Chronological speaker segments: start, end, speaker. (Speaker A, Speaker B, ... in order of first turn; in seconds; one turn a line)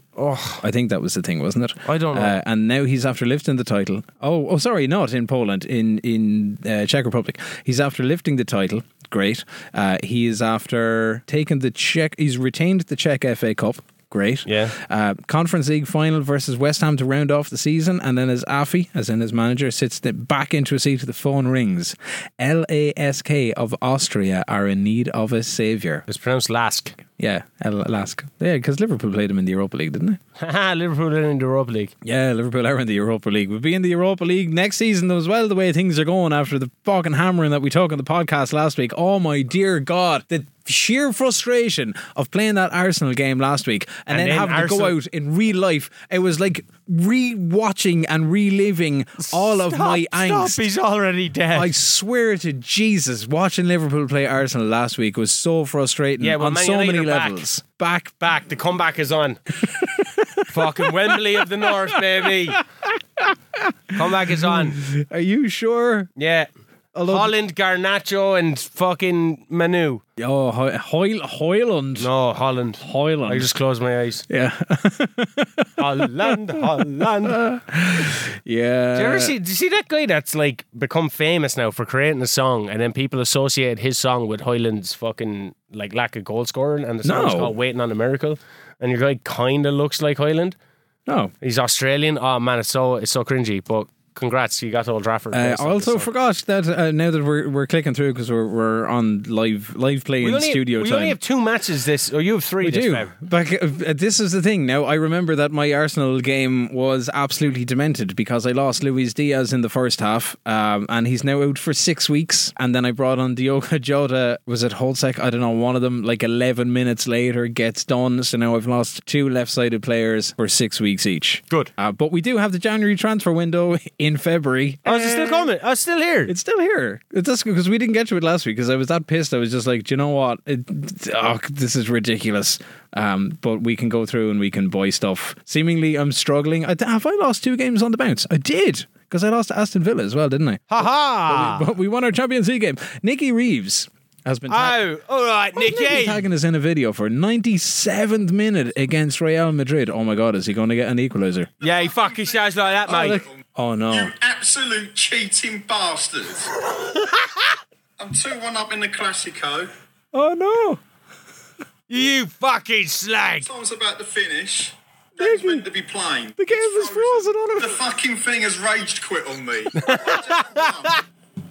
Speaker A: 0.2-0.6
Speaker B: 0.6-26.1
Speaker A: 1.8-2.4
Speaker A: 14.5-14.8
Speaker A: 26.1-27.0
Speaker B: 27.2-30.2
Speaker A: 30.4-31.9
Speaker B: 32.0-50.6
Speaker A: 44.1-45.0
Speaker A: 49.2-51.7
Speaker B: 51.5-58.2
Speaker A: 56.2-57.4
Speaker A: 58.2-59.4
Speaker B: 59.6-66.1
Speaker A: 60.5-62.6
Speaker A: 63.9-64.8
Speaker A: 66.2-66.5
Speaker B: 66.9-67.3
Speaker A: 67.1-70.0
Speaker B: 70.2-72.1
Speaker A: 72.0-74.3
Speaker B: 72.8-73.5
Speaker B: 74.3-79.3
Speaker A: 75.8-77.4
Speaker A: 79.0-90.6
Speaker B: 87.0-87.6
Speaker B: 91.1-91.3
Speaker A: 91.4-96.1
Speaker B: 95.3-101.2
Speaker A: 100.2-103.1
Speaker B: 102.6-125.5
Speaker A: 124.8-126.3
Speaker B: 126.3-144.8
Speaker A: 140.7-141.7
Speaker A: 144.5-146.2
Speaker B: 145.6-151.5
Speaker A: 151.6-153.2
Speaker C: 151.6-152.5
Speaker B: 152.9-154.1
Speaker C: 153.9-156.6
Speaker C: 158.0-159.7
Speaker B: 160.1-160.8
Speaker A: 161.9-163.5
Speaker C: 163.5-171.0
Speaker B: 165.2-165.7
Speaker B: 166.4-167.8
Speaker A: 169.8-171.0